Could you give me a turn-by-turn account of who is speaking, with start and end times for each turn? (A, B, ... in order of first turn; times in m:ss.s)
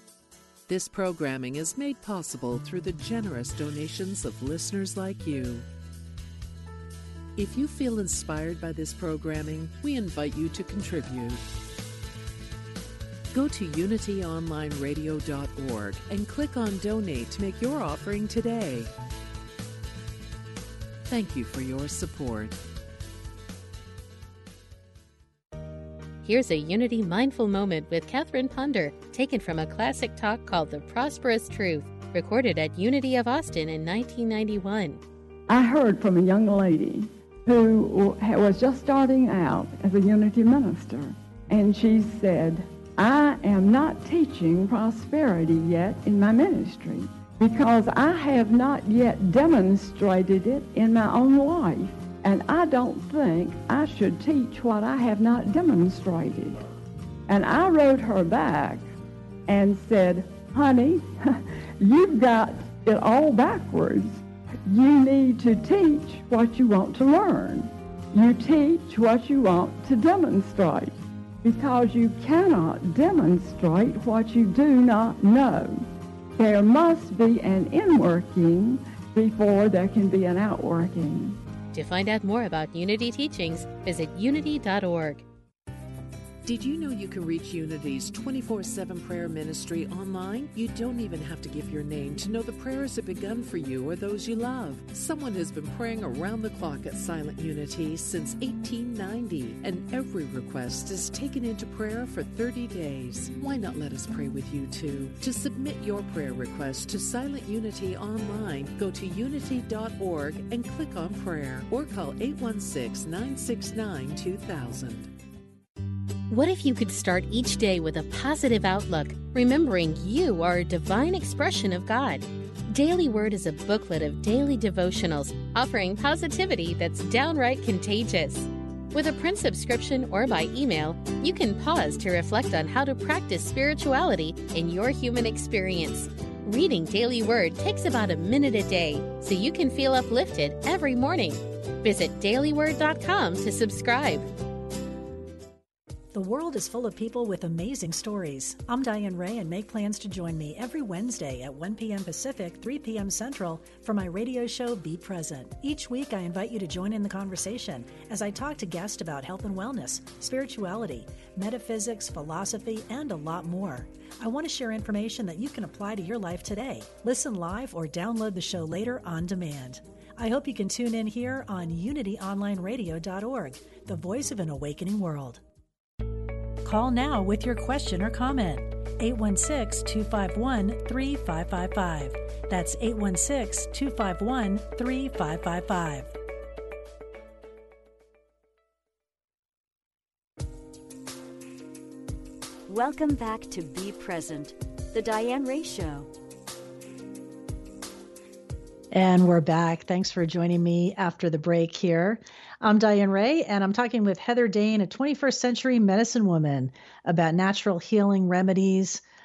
0:00.7-0:05.6 A
0:07.4-0:11.4 A
0:13.3-0:18.9 A
0:21.1-0:22.6 A
0:26.2-0:35.0 B
0:35.5-0:56.6 C
0:57.3-0:58.8 C
0:59.5-1:21.4 C
1:21.7-1:25.2 B
1:26.4-1:55.1 A
1:56.3-2:24.3 B
2:26.1-2:55.4 D
2:56.6-3:06.1 D
3:12.7-3:16.1 E
3:18.9-3:29.0 D